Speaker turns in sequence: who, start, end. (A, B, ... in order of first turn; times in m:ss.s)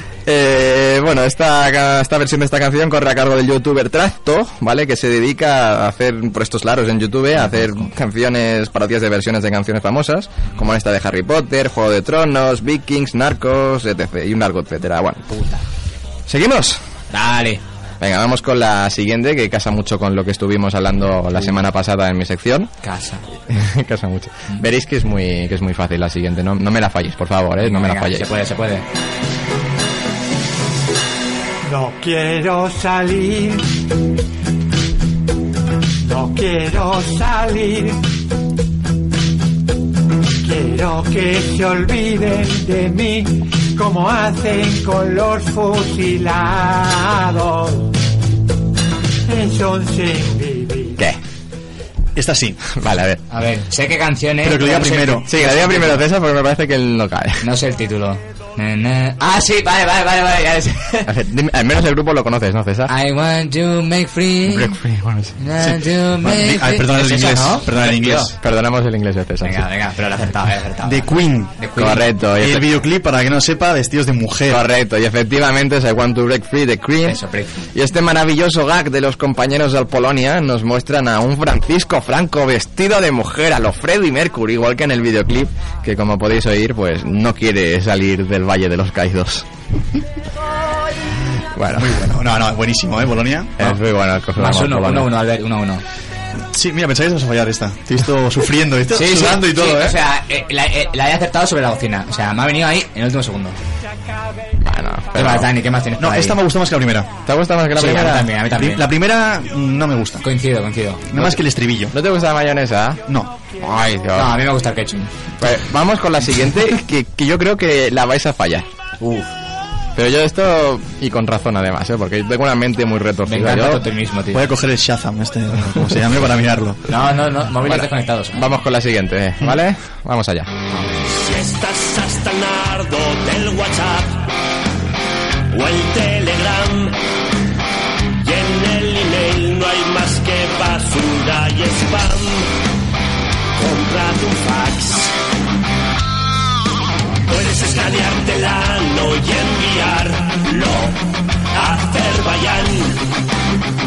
0:00.2-0:15.3 A
0:07.4-0:07.8 B
0:15.3-0:15.6 B
0:16.3-0:16.8 A
0:17.1-0:17.6 B
0:18.0-0:22.7 A
0:22.8-0:23.2 B
0:23.5-0:28.3 A
0:27.6-0:28.8 B
0:31.6-0:33.7 C
0:36.0-0:38.0 C
0:40.4-0:47.9 C
0:49.3-0:51.0 C
0:52.2-0:52.6 D
0:52.7-0:53.2 A
0:53.3-0:56.0 B
0:54.4-0:55.3 D
0:55.3-0:57.5 A
0:57.4-1:01.1 B
1:01.0-1:02.9 A
1:02.9-1:04.8 B
1:04.5-1:05.4 A
1:05.4-1:08.3 B
1:05.6-1:08.3 D
1:08.4-1:09.7 A
1:09.4-1:12.1 B
1:10.8-1:11.5 D
1:11.8-1:12.7 A
1:12.4-1:14.6 D
1:14.5-1:17.2 A
1:17.0-1:17.6 B
1:17.7-1:29.5 A
1:31.5-1:32.2 A
1:31.7-1:33.6 D
1:33.6-1:35.1 A
1:34.4-1:35.8 B
1:36.5-1:40.0 D
1:38.9-1:43.6 B
1:44.6-1:45.5 A
1:45.1-1:46.4 B
1:46.0-1:47.1 D
1:47.2-1:48.3 A
1:47.7-1:48.8 B
1:48.5-1:50.2 D
1:50.2-1:51.0 B
1:51.1-1:51.9 D
1:51.1-1:53.0 A
1:53.1-1:53.3 D
1:53.6-1:54.4 A
1:54.1-1:55.1 B
1:55.4-1:58.7 A
1:59.0-1:59.3 B
1:59.9-2:03.8 A
2:03.3-2:04.4 B
2:04.3-2:06.8 D
2:06.9-2:08.5 B
2:07.6-2:10.5 A
2:11.1-2:14.2 E
2:15.5-2:17.0 E
2:18.2-2:22.5 E
2:23.6-2:25.1 E
2:27.3-2:31.0 E
2:31.5-2:33.0 E